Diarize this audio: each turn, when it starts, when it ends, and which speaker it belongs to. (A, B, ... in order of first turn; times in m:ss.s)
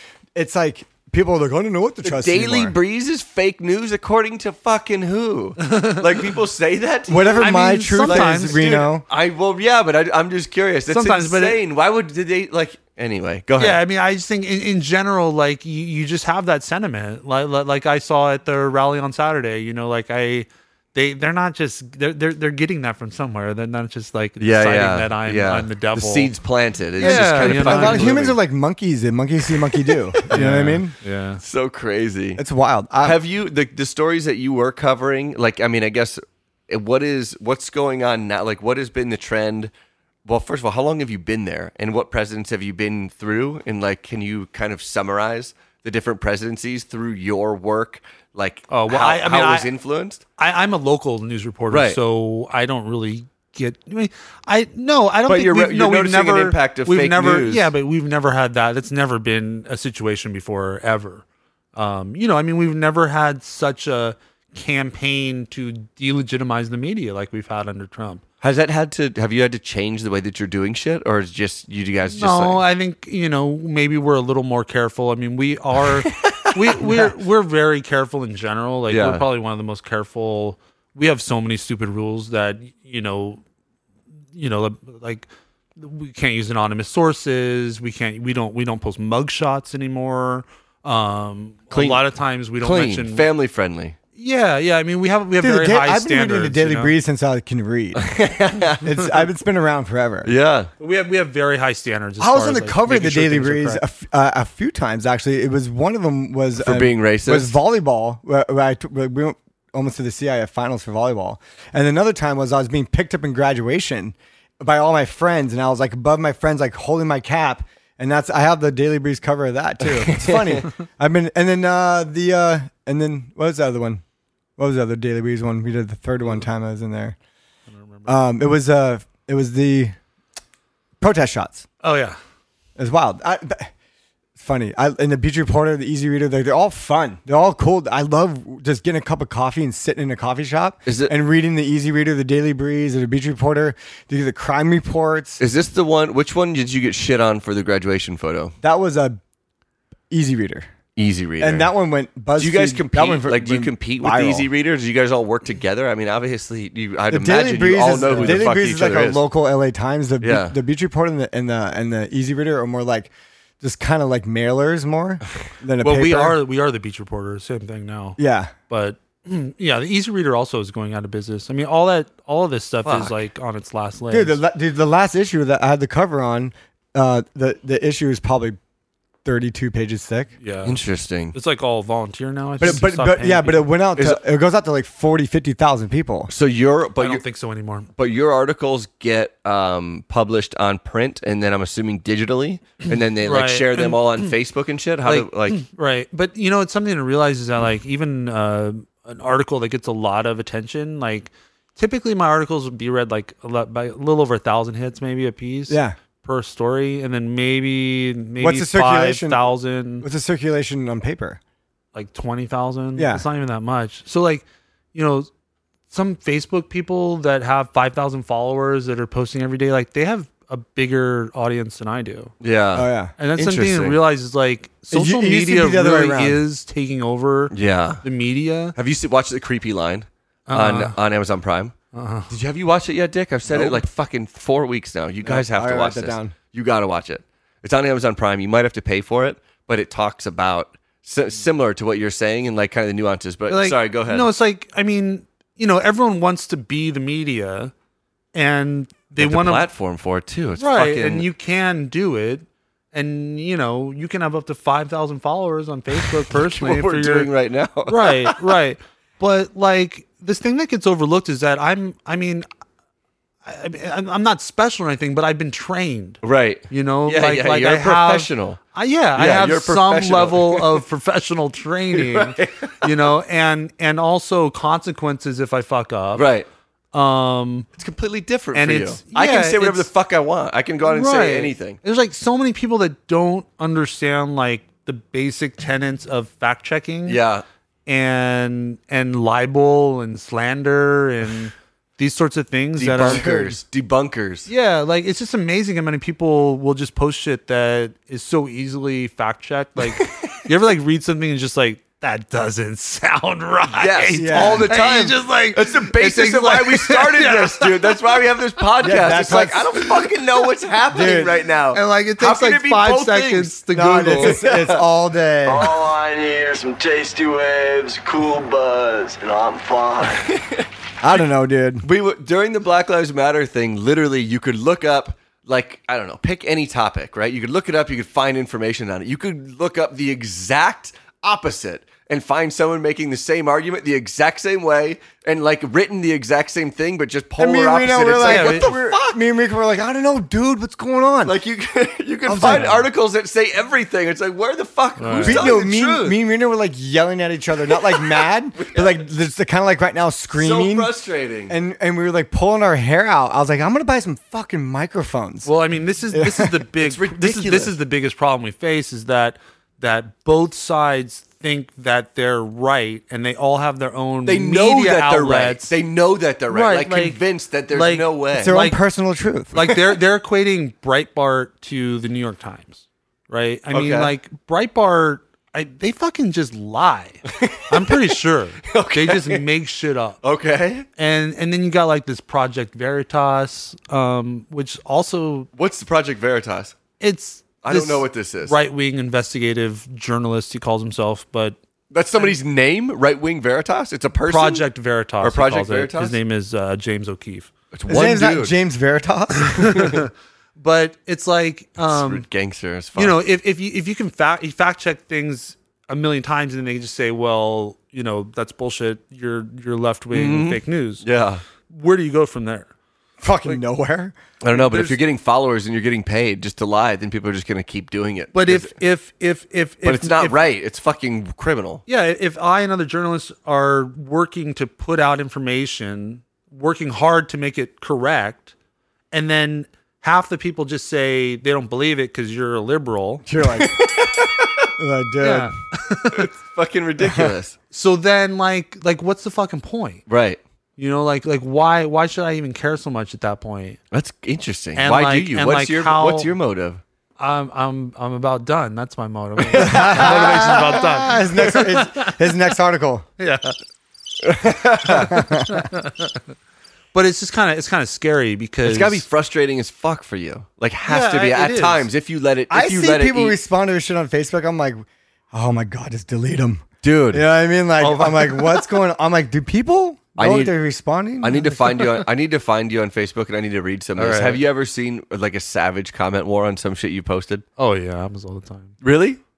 0:00.4-0:02.8 A
0:02.0-0:13.8 B
0:05.6-0:06.1 C
0:07.1-0:09.0 A
0:07.4-0:08.7 C
0:10.9-0:11.6 C
0:13.6-0:26.3 C
0:24.4-0:28.4 B
0:27.0-0:28.1 C
0:27.0-0:31.0 A
0:29.7-0:30.4 B
0:30.3-0:31.4 C
0:31.4-0:32.4 B
0:32.4-0:33.2 A
0:33.0-0:39.7 B
0:40.2-0:50.2 B
0:48.7-0:49.7 C
0:50.4-1:01.2 C
0:51.7-0:52.0 B
0:55.3-0:57.7 B
1:01.8-1:08.2 C
1:08.4-1:12.6 B
1:12.1-1:23.4 C
1:16.1-1:17.1 B
1:18.9-1:19.2 B
1:24.3-1:33.3 C
1:31.7-1:32.0 B
1:32.6-1:34.0 B
1:34.2-1:36.9 C
1:35.4-1:38.1 A
1:38.0-1:39.2 B
1:38.8-1:40.3 A
1:40.2-1:40.7 B
1:40.8-1:43.8 C
1:42.2-2:04.0 A
1:46.6-1:47.6 B
2:00.0-2:00.7 B
2:04.6-2:07.2 A
2:07.7-2:08.1 C
2:08.1-2:10.0 A
2:11.0-2:11.6 A
2:11.8-2:12.2 C
2:12.8-2:13.7 A
2:14.4-2:25.4 A
2:20.9-2:21.1 B
2:25.4-2:28.5 B
2:28.6-2:29.2 A
2:30.1-2:30.7 A
2:31.0-2:31.7 B
2:31.4-2:34.5 A
2:32.4-2:39.2 B
2:37.1-2:46.4 A
2:38.0-2:38.5 C
2:40.2-2:40.6 B
2:45.8-2:54.4 C
2:48.2-2:48.5 A
2:52.9-2:53.1 B
2:54.1-2:58.6 A
2:59.2-3:00.3 A
3:00.4-3:00.8 C
3:00.6-3:01.4 B
3:01.3-3:03.7 C
3:02.6-3:06.3 A
3:06.3-3:07.2 B
3:07.0-3:07.9 C
3:08.0-3:15.6 B
3:13.2-3:14.3 C
3:15.0-3:30.0 C
3:25.7-3:26.0 A
3:28.4-3:29.4 A
3:30.0-3:31.4 A
3:31.9-3:35.3 C
3:33.0-3:33.2 A
3:35.9-3:42.3 C
3:42.4-3:44.0 B
3:42.8-3:43.1 A
3:43.2-3:48.8 C
3:44.9-3:46.4 A
3:47.5-3:48.0 B
3:48.8-3:51.8 B
3:50.5-3:51.0 C
3:51.9-3:52.3 C
3:52.3-4:04.3 B
3:53.5-3:53.8 A
3:55.2-3:56.4 A
4:03.5-4:07.7 C
4:08.3-4:09.7 C
4:09.2-4:11.3 B
4:10.6-4:17.3 C
4:16.3-4:18.4 B
4:17.9-4:22.5 C
4:23.4-4:36.3 C
4:26.2-4:28.6 B
4:29.2-4:30.8 B
4:31.9-4:32.9 B
4:36.2-4:36.5 B
4:36.9-4:37.7 C
4:37.8-4:41.8 B
4:38.5-4:39.9 C
4:40.9-4:47.2 C
4:47.1-4:47.4 B
4:47.9-4:53.3 C
4:52.8-4:54.5 B
4:53.1-4:53.6 A
4:54.5-5:08.0 C
5:00.0-5:00.3 B
5:03.8-5:13.6 B
5:04.2-5:04.7 A
5:08.8-5:09.8 A
5:10.9-5:11.4 A
5:11.7-5:14.4 C
5:13.7-5:15.7 A
5:14.1-5:14.8 B
5:15.4-5:20.3 D
5:20.0-5:20.7 B
5:21.0-5:21.9 A
5:21.8-5:38.9 B
5:37.4-5:41.4 A
5:38.2-5:38.8 C
5:41.3-5:46.2 B
5:42.3-5:42.8 A
5:42.4-5:42.8 C
5:45.0-5:45.5 C
5:45.2-5:50.9 A
5:47.8-5:49.0 B
5:50.3-5:51.6 B
5:51.5-5:55.5 A
5:55.4-6:05.7 C
5:56.1-5:56.6 A
5:56.8-5:57.7 B
6:04.3-6:08.5 B
6:06.5-6:07.2 C
6:07.7-6:08.8 C
6:08.4-6:09.6 A
6:09.5-6:20.2 C
6:13.7-6:14.1 B
6:17.3-6:18.1 B
6:18.7-6:19.4 B
6:20.2-6:20.9 B
6:21.0-6:25.5 C
6:25.6-6:26.8 B
6:27.0-6:31.6 C
6:27.6-6:28.6 B
6:31.9-6:34.7 B
6:34.3-6:37.5 C
6:35.2-6:36.2 B
6:37.7-6:38.5 B
6:37.9-6:39.9 A
6:39.5-6:42.3 C
6:41.9-6:43.2 B
6:43.0-6:51.0 C
6:50.1-6:51.4 B
6:51.7-6:52.7 C
6:53.2-6:54.2 A
6:54.4-6:58.7 B
6:54.5-6:55.0 C
6:58.3-7:00.4 C
6:59.8-7:01.8 B
7:01.9-7:08.5 C
7:09.1-7:13.2 C
7:13.3-7:13.8 A
7:13.5-7:14.7 B
7:14.8-7:15.5 A
7:15.2-7:16.3 C
7:16.1-7:17.6 B
7:17.0-7:17.4 A
7:17.7-7:20.0 C
7:20.1-7:20.4 B
7:20.8-7:23.8 C
7:23.9-7:26.8 B
7:24.8-7:26.3 C
7:27.2-7:32.2 C
7:29.4-7:30.8 B
7:29.6-7:33.1 A
7:33.2-7:33.6 C
7:34.2-7:35.2 B
7:34.9-7:35.6 A
7:34.9-7:36.1 C
7:36.9-7:39.0 C
7:38.6-7:43.4 B
7:40.9-7:41.9 C
7:42.5-7:51.4 A
7:46.8-7:47.2 B
7:47.8-7:48.2 B
7:50.2-7:50.5 B
7:51.2-7:57.4 B
7:54.0-7:54.4 C
7:57.6-7:58.8 C
7:58.8-7:59.2 B